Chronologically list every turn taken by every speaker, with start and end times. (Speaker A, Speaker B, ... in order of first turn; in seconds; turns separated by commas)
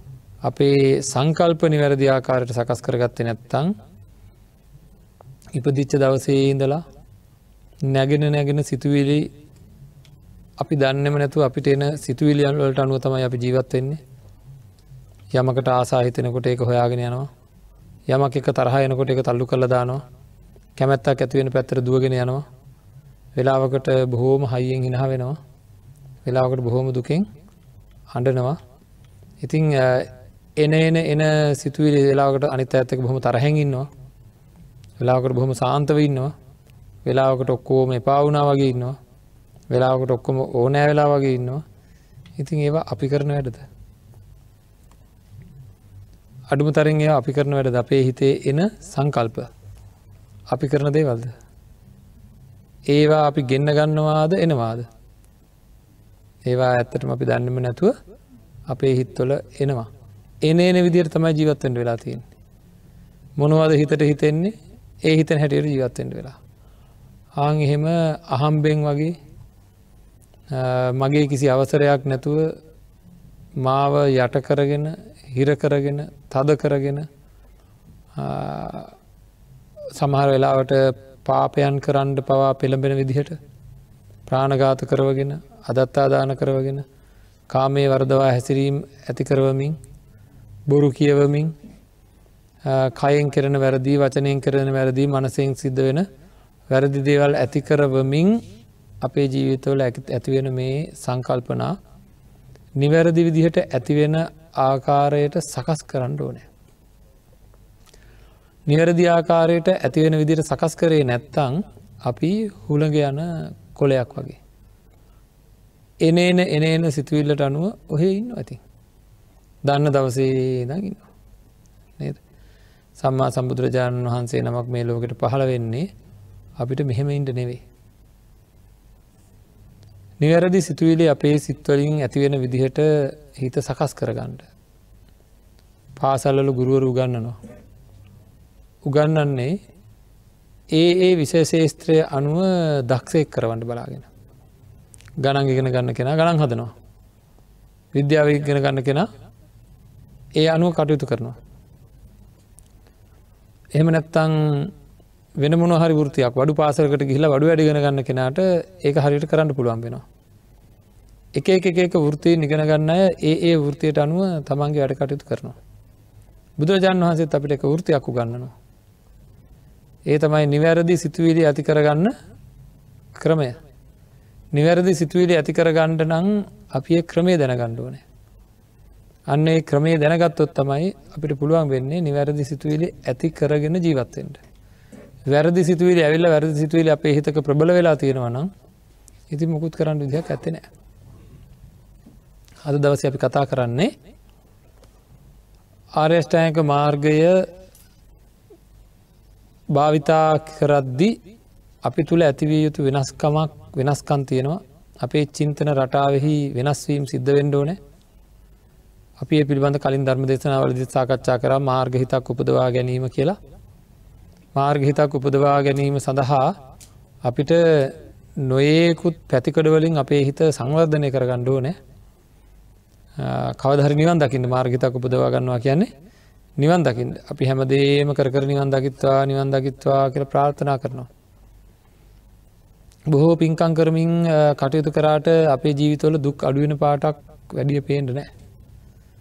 Speaker A: 0.4-3.7, Speaker A: 5.5-6.8, Speaker A: 7.8-9.3, Speaker A: 10.6-14.0, Speaker A: 15.3-17.3, Speaker A: 18.1-20.0, Speaker A: 20.8-22.4, Speaker A: 23.4-25.4, Speaker A: 26.2-27.3, Speaker A: 28.1-28.6, Speaker A: 29.4-33.9, Speaker A: 35.0-36.3, Speaker A: 37.0-39.0, Speaker A: 39.7-41.6, Speaker A: 42.4-43.7, Speaker A: 46.5-49.5, Speaker A: 50.5-51.3, Speaker A: 52.9-54.9, Speaker A: 56.5-58.0, Speaker A: 58.7-59.9, Speaker A: 60.4-62.3, Speaker A: 63.4-66.4, Speaker A: 67.4-69.2, Speaker A: 70.5-72.5, Speaker A: 73.6-77.1, Speaker A: 78.2-78.9, Speaker A: 80.0-83.4, Speaker A: 84.3-86.8, Speaker A: 87.5-89.8, Speaker A: 90.7-91.5, Speaker A: 92.7-96.1, Speaker A: 96.7-98.4, Speaker A: 99.0-101.8, Speaker A: 102.8-106.5, Speaker A: 108.7-114.4, Speaker A: 116.0-118.6, Speaker A: 119.6-121.1, Speaker A: 123.0-125.9, Speaker A: 126.6-127.6, Speaker A: 130.2-134.5, Speaker A: 136.0-137.4, Speaker A: 138.8-139.6, Speaker A: 140.7-144.1, Speaker A: 145.2-146.7, Speaker A: 147.9-149.1, Speaker A: 150.4-151.4, Speaker A: 153.7-154.7, Speaker A: 155.4-160.1, Speaker A: 161.3-165.6, Speaker A: 166.6-168.5, Speaker A: 170.1-172.1, Speaker A: 173.2-173.6, Speaker A: 174.5-178.0, Speaker A: 179.3-184.4, Speaker A: 185.3-188.5, Speaker A: 189.3-190.7, Speaker A: 192.6-193.9, Speaker A: 195.9-197.4, Speaker A: 199.7-201.2, Speaker A: 201.8-207.8, Speaker A: 209.2-213.4, Speaker A: 214.6-216.6, Speaker A: 217.2-221.8, Speaker A: 223.2-225.9, Speaker A: 226.6-231.1, Speaker A: 233.1-238.3